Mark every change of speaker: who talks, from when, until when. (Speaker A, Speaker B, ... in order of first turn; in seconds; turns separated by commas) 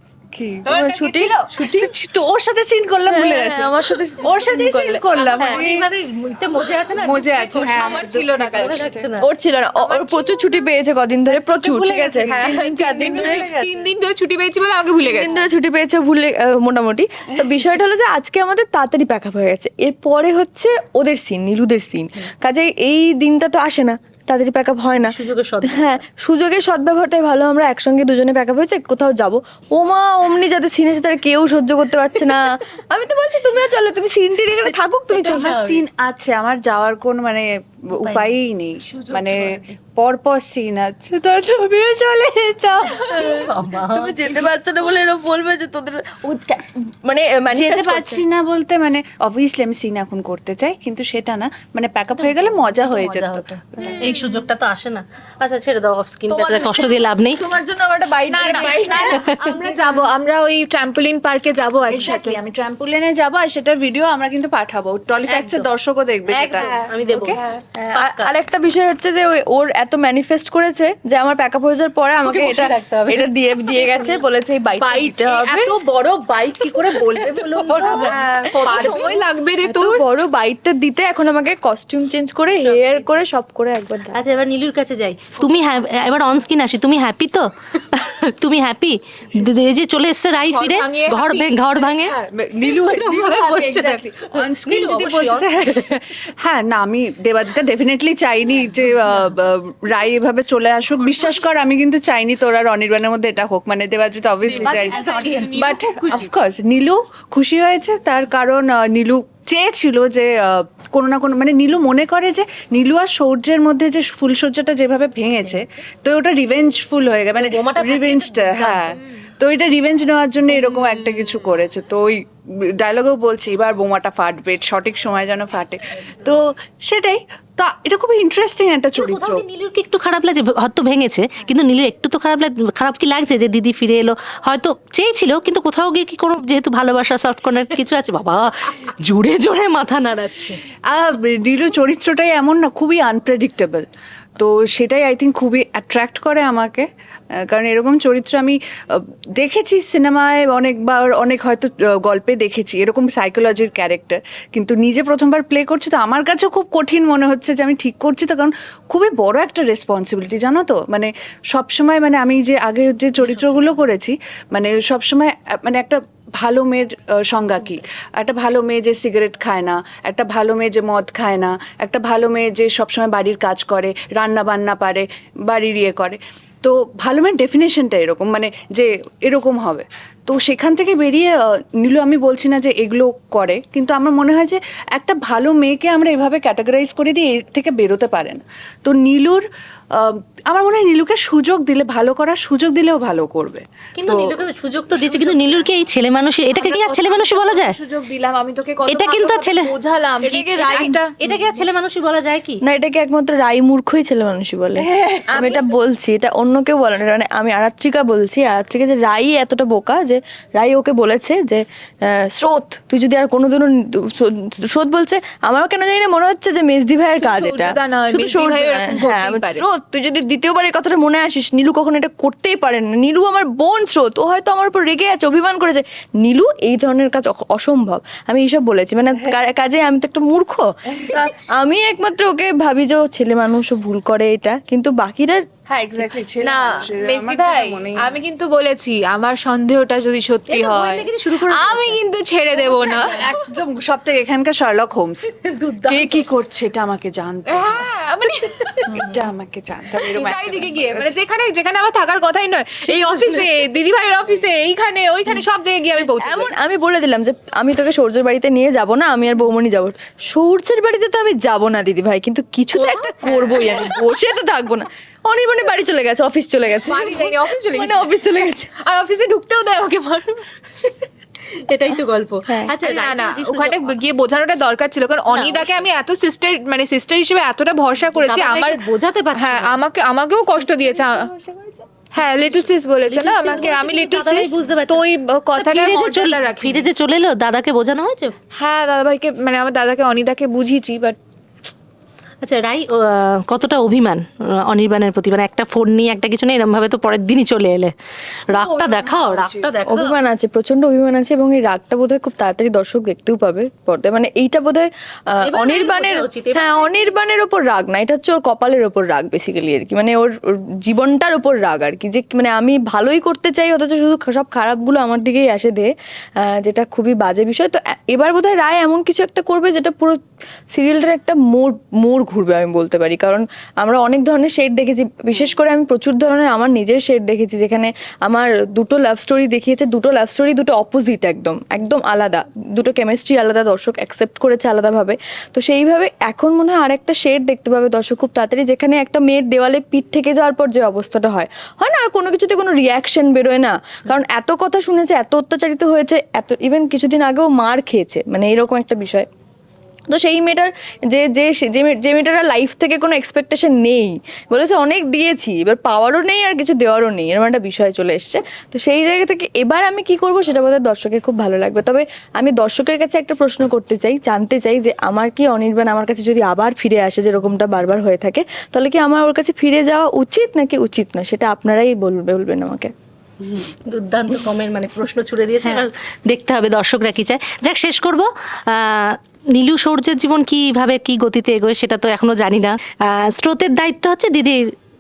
Speaker A: 0.3-0.7, Speaker B: 0.7-1.5, Speaker C: 0.7-1.9, Speaker A: 1.6-5.8, Speaker C: 3.1-5.7, Speaker D: 5.2-9.3, Speaker A: 7.0-9.1, Speaker B: 7.5-8.9, Speaker C: 9.2-13.5, Speaker B: 9.8-10.6, Speaker A: 11.3-13.9, Speaker B: 12.4-15.5, Speaker C: 15.0-35.6, Speaker D: 25.1-26.0, Speaker D: 35.1-35.8, Speaker A: 35.3-43.2, Speaker C: 43.0-48.2, Speaker D: 43.1-44.4, Speaker A: 47.5-54.0, Speaker D: 52.2-57.4, Speaker B: 54.0-54.3, Speaker C: 56.3-60.0, Speaker B: 58.3-62.4, Speaker A: 58.5-58.8, Speaker A: 61.9-67.4, Speaker D: 66.3-67.4, Speaker B: 67.3-67.6, Speaker C: 67.8-75.7, Speaker D: 67.9-68.3, Speaker D: 72.2-74.1, Speaker A: 74.8-79.2, Speaker D: 77.5-78.1, Speaker C: 77.6-84.2, Speaker B: 77.7-80.0, Speaker D: 82.5-83.0, Speaker D: 84.1-96.0, Speaker B: 90.5-92.0, Speaker A: 92.2-105.0, Speaker B: 93.5-93.8, Speaker B: 104.5-106.3, Speaker D: 104.6-106.2, Speaker A: 105.5-122.2, Speaker D: 117.4-119.0, Speaker B: 120.5-121.3, Speaker A: 122.8-129.4, Speaker D: 129.0-140.6, Speaker A: 140.9-143.8, Speaker A: 144.4-146.9, Speaker A: 147.4-194.3, Speaker D: 163.2-163.8, Speaker D: 194.0-197.8, Speaker B: 195.0-195.6, Speaker B: 196.5-201.2, Speaker D: 198.9-199.7, Speaker D: 200.3-202.6, Speaker C: 200.3-201.4, Speaker C: 202.6-235.4, Speaker A: 204.9-205.2, Speaker B: 205.3-205.7, Speaker B: 217.2-219.6, Speaker A: 235.7-238.1, Speaker B: 236.4-243.3, Speaker D: 240.5-242.0, Speaker A: 242.9-245.2, Speaker D: 245.3-246.3, Speaker A: 245.9-247.9, Speaker B: 247.5-249.1, Speaker A: 248.9-251.2, Speaker B: 250.1-256.5, Speaker D: 252.9-253.5, Speaker C: 256.0-268.7, Speaker B: 263.3-263.7, Speaker B: 266.9-268.1, Speaker B: 268.8-270.4, Speaker D: 271.5-273.9, Speaker C: 272.5-272.7, Speaker B: 272.8-278.8, Speaker D: 275.3-275.6, Speaker D: 278.1-279.8, Speaker B: 279.3-281.3, Speaker C: 280.5-282.7, Speaker B: 282.1-286.9, Speaker D: 283.1-285.0, Speaker D: 285.6-288.3, Speaker B: 288.6-291.2, Speaker D: 292.4-297.9, Speaker D: 298.5-300.1, Speaker A: 298.5-299.7, Speaker C: 299.9-310.3, Speaker D: 305.4-307.1, Speaker C: 310.9-315.9, Speaker C: 316.4-320.2, Speaker C: 320.7-349.3, Speaker C: 350.1-372.9, Speaker D: 373.6-384.7